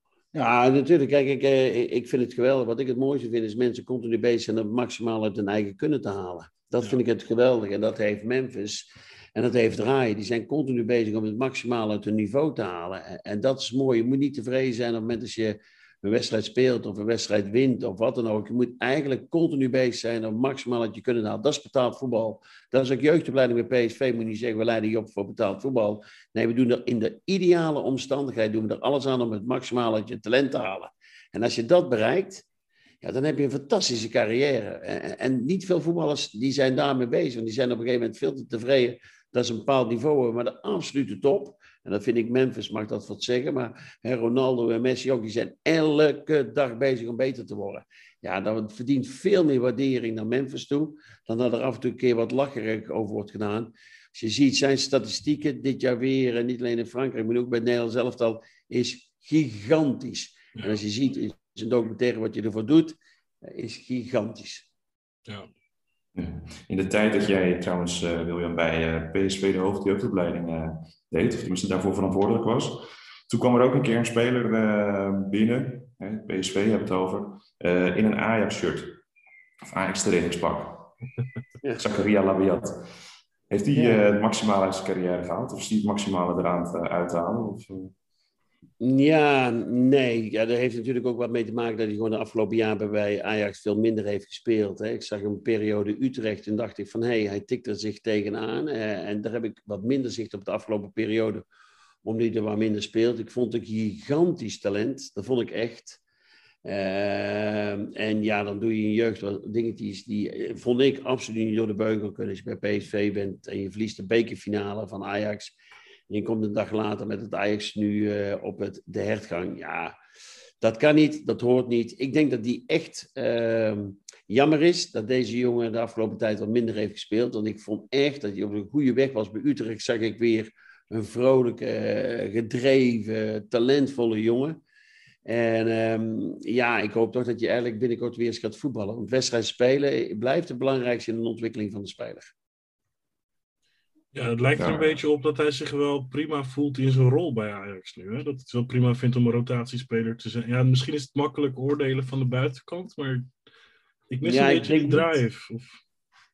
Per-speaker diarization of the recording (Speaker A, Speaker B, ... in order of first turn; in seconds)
Speaker A: 0.3-32.4, 33.0-64.7, 83.7-84.0, 88.8-101.4, 102.0-106.0, 106.6-115.5, 116.1-120.0, 120.6-134.6, 135.2-142.3, 154.2-155.2
Speaker B: 66.1-79.0, 79.7-80.9, 81.8-82.8, 83.5-87.9, 144.6-145.0
Speaker C: 144.1-153.3, 154.1-155.8